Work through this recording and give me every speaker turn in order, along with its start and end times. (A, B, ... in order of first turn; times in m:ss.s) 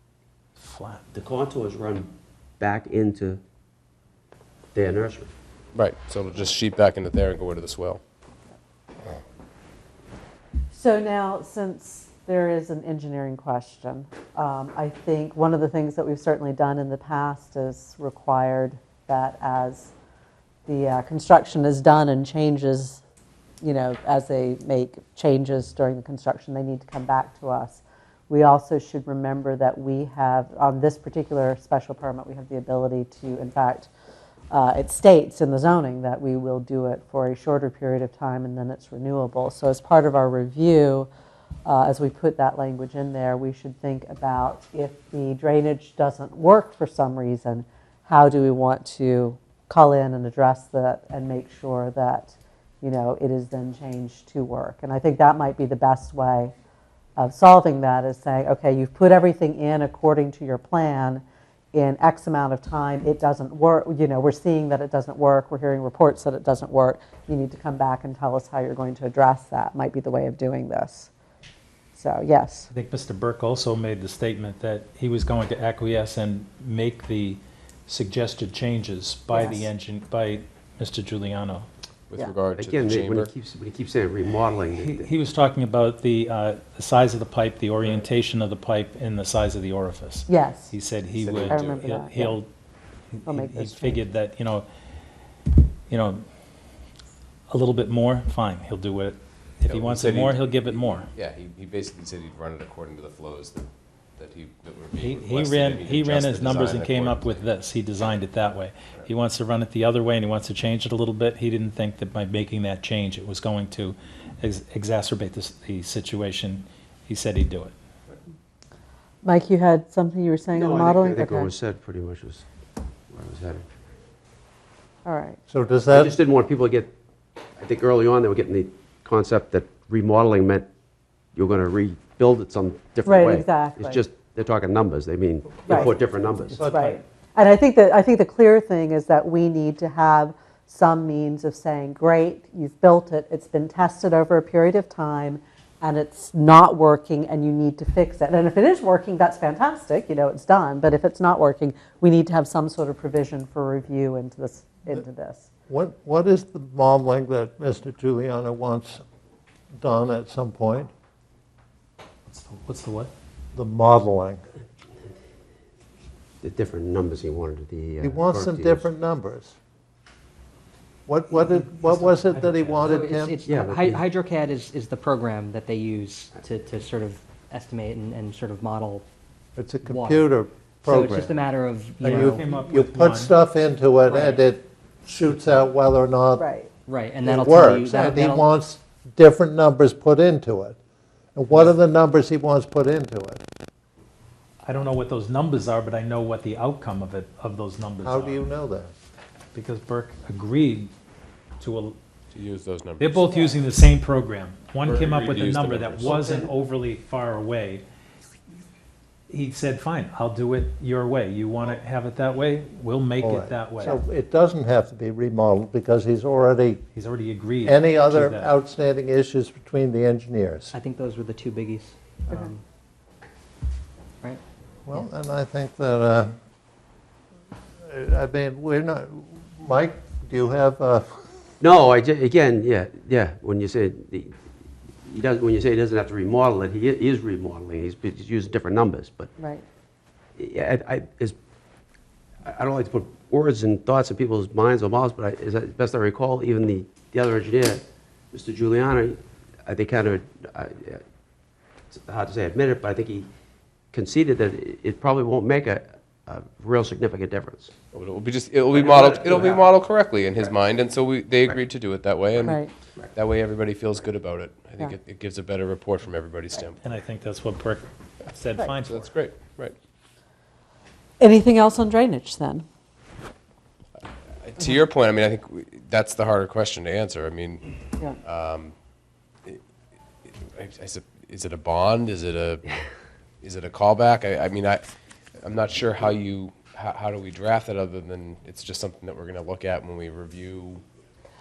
0:00.6-0:01.0 A
0:01.1-0:03.4 B
0:04.7-0:05.3 B
0:05.7-0:08.0 C
0:10.7-0:19.9 D
0:20.7-0:23.0 D
0:23.6-0:33.9 D
0:34.5-0:41.1 D
0:41.7-0:56.5 D
0:57.2-1:11.1 D
1:12.0-1:12.7 D
1:12.7-1:21.7 A
1:19.3-1:19.7 D
1:22.1-1:23.3 C
1:22.6-1:25.1 B
1:24.7-1:32.5 A
1:30.3-1:30.7 D
1:31.2-1:31.5 B
1:31.5-1:32.4 D
1:31.5-1:31.9 C
1:33.2-1:34.7 A
1:33.2-1:34.0 D
1:35.9-1:36.2 A
1:37.5-1:41.1 A
1:39.7-1:47.4 C
1:45.0-1:57.7 A
1:59.2-2:01.5 D
2:00.5-2:02.4 B
2:03.1-2:03.7 B
2:05.0-2:05.4 D
2:05.5-2:06.2 E
2:05.9-2:06.9 B
2:07.6-2:10.7 B
2:11.3-2:16.7 B
2:13.0-2:14.0 D
2:15.7-2:16.0 D
2:16.5-2:17.0 E
2:16.6-2:35.5 D
2:35.7-2:39.0 E
2:39.8-2:40.9 E
2:42.3-2:43.1 A
2:43.5-2:44.4 E
2:46.4-2:48.9 B
2:48.0-2:49.6 E
2:51.1-2:53.4 E
2:51.3-2:59.0 F
2:53.4-2:54.0 B
2:59.6-3:01.3 E
2:59.8-3:00.3 F
3:00.8-3:02.4 F
3:02.0-3:06.5 E
3:02.0-3:03.3 A
3:04.1-3:04.4 F
3:06.4-3:06.7 D
3:06.9-3:08.4 F
3:07.2-3:10.8 E
3:11.3-3:13.4 E
3:14.6-3:18.4 A
3:18.0-3:18.9 E
3:19.5-3:20.9 A
3:21.6-3:22.0 A
3:22.3-3:23.3 C
3:23.0-3:27.8 A
3:24.8-3:26.2 C
3:26.0-3:26.5 B
3:29.3-3:34.0 A
3:33.2-3:36.8 E
3:36.9-3:38.5 A
3:37.6-3:40.7 E
3:40.7-3:42.6 F
3:44.8-3:46.3 E
3:47.9-3:51.2 E
3:51.6-3:54.4 B
3:55.0-3:59.3 B
3:59.4-3:59.6 D
4:00.4-4:01.4 B
4:02.4-4:11.0 B
4:11.9-4:13.3 B
4:13.9-4:17.7 B
4:17.9-4:22.6 C
4:18.7-4:19.7 B
4:22.4-4:22.7 D
4:23.1-4:26.8 C
4:26.8-4:29.1 A
4:28.8-4:29.7 C
4:31.2-4:32.6 D
4:34.4-4:37.7 C
4:38.2-4:38.7 C
4:40.4-4:42.6 C
4:43.4-4:44.8 C
4:45.4-4:50.8 C